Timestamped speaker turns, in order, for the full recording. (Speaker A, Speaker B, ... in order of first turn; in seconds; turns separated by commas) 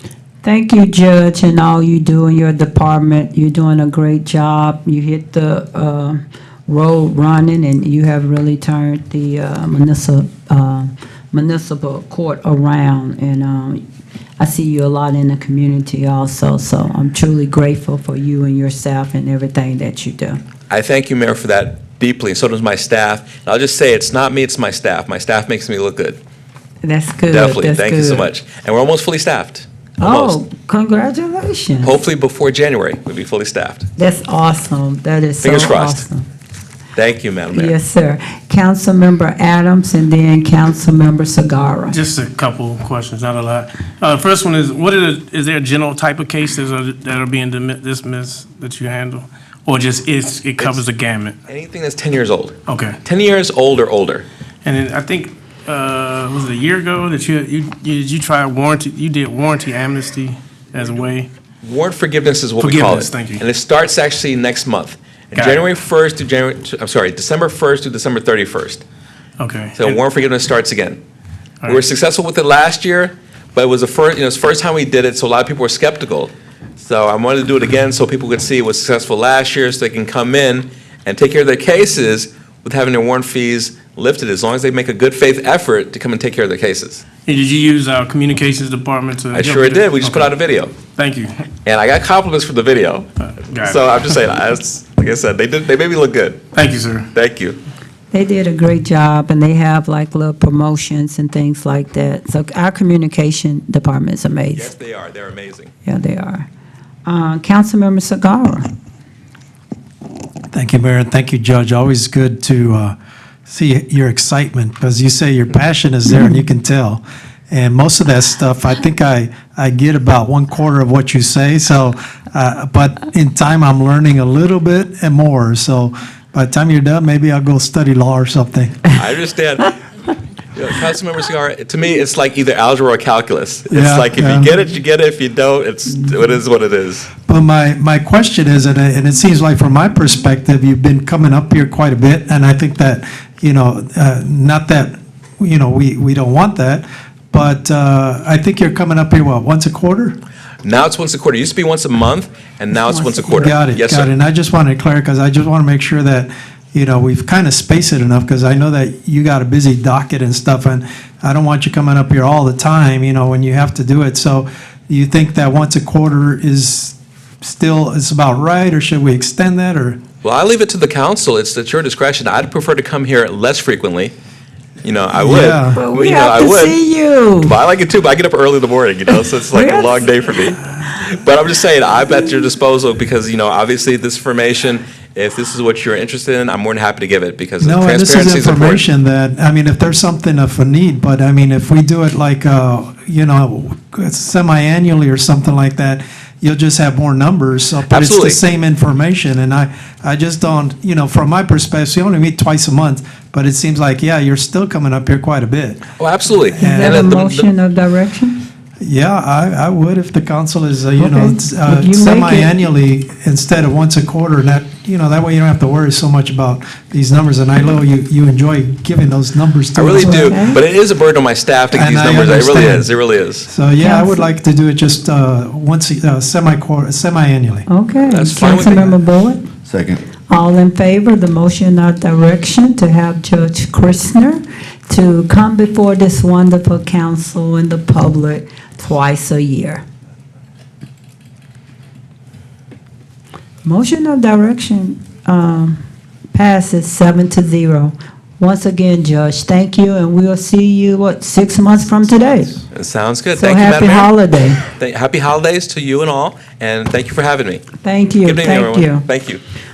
Speaker A: 0.4-13.8, Speaker A: 14.4-20.4, Speaker B: 20.7-26.2, Speaker A: 26.8-28.3, Speaker B: 27.3-30.4, Speaker A: 30.0-32.0, Speaker B: 31.8-33.9, Speaker A: 34.0-36.2, Speaker B: 35.4-36.0, Speaker B: 36.9-37.7, Speaker A: 37.5-42.0, Speaker C: 41.9-51.4, Speaker B: 51.5-54.2, Speaker C: 52.7-53.0, Speaker C: 54.6-61.3, Speaker B: 61.6-68.8, Speaker C: 62.6-63.4, Speaker C: 65.3-65.6, Speaker C: 69.4-70.0, Speaker B: 69.8-71.0, Speaker B: 71.6-87.0, Speaker C: 87.2-90.3, Speaker B: 89.3-90.7, Speaker C: 90.9-91.5, Speaker B: 91.6-93.1, Speaker C: 93.2-93.8, Speaker B: 93.6-96.4, Speaker C: 96.5-97.1, Speaker B: 97.1-97.6, Speaker A: 98.1-104.7, Speaker B: 104.5-105.7, Speaker A: 105.8-106.5, Speaker A: 107.0-108.7, Speaker D: 110.5-128.9, Speaker B: 128.9-129.7, Speaker B: 130.6-137.1, Speaker D: 133.7-134.5, Speaker D: 137.3-150.1, Speaker B: 150.6-154.1, Speaker A: 152.7-153.5, Speaker D: 153.3-170.0, Speaker B: 170.2-174.1, Speaker B: 174.8-176.8, Speaker D: 175.1-175.8, Speaker A: 175.7-177.6, Speaker B: 177.4-188.8, Speaker A: 179.5-180.2, Speaker D: 187.6-205.9, Speaker B: 197.9-198.4, Speaker B: 206.0-207.5, Speaker D: 206.4-207.2, Speaker A: 206.6-208.4, Speaker D: 208.8-220.4, Speaker A: 211.0-212.5, Speaker B: 219.7-223.5, Speaker A: 219.9-220.6, Speaker D: 221.7-222.9, Speaker D: 223.4-227.7, Speaker A: 223.8-224.2, Speaker A: 227.7-229.5, Speaker B: 228.0-228.9, Speaker A: 230.3-239.8, Speaker A: 243.6-245.8, Speaker A: 246.3-252.6, Speaker B: 252.7-254.1, Speaker A: 253.3-254.6, Speaker B: 254.7-257.6, Speaker A: 257.8-259.1, Speaker B: 258.2-259.4